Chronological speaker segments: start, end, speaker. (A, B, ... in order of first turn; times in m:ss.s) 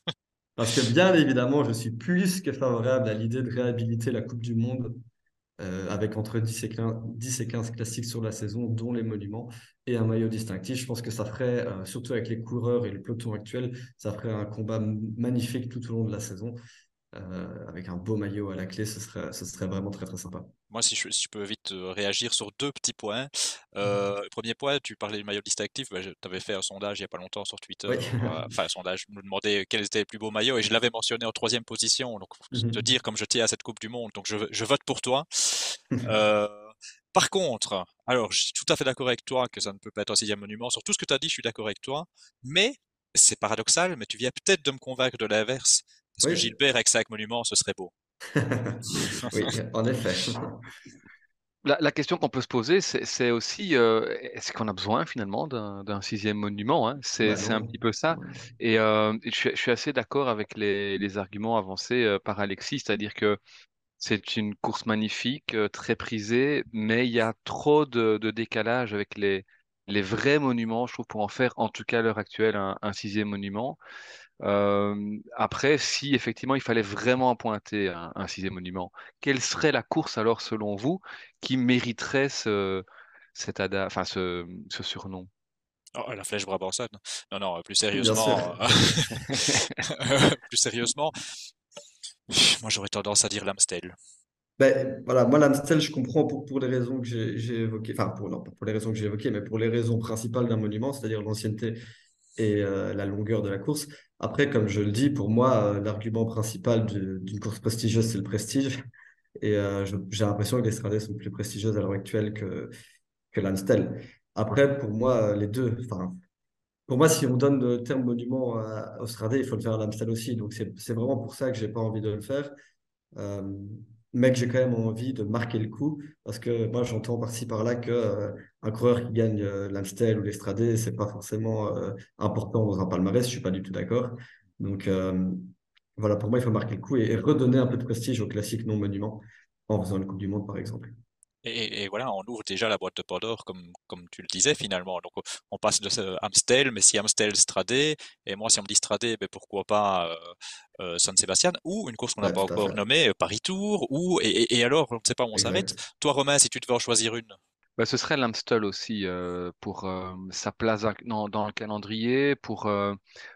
0:00.6-0:05.0 A
0:05.6-0:16.6 A
0:17.1-0:20.5 A
0:20.7-0:47.9 B
0:27.9-0:28.5 A
0:32.5-0:32.8 A
0:46.2-0:46.5 A
0:48.3-0:50.6 A
0:48.9-0:49.5 B
0:51.6-1:03.4 C
0:57.2-0:58.3 A
1:04.0-1:13.8 C
1:14.4-1:25.3 C
1:26.0-1:31.3 B
1:27.9-1:28.9 A
1:29.3-1:29.6 C
1:32.3-1:34.0 B
1:34.6-1:41.8 A
1:42.4-1:48.7 A
1:49.4-1:52.7 A
1:53.3-1:56.2 A
1:56.9-2:02.5 A
2:03.2-2:21.0 A
2:21.4-2:37.4 B
2:32.2-2:32.8 A
2:35.3-2:35.7 A
2:37.8-2:43.0 C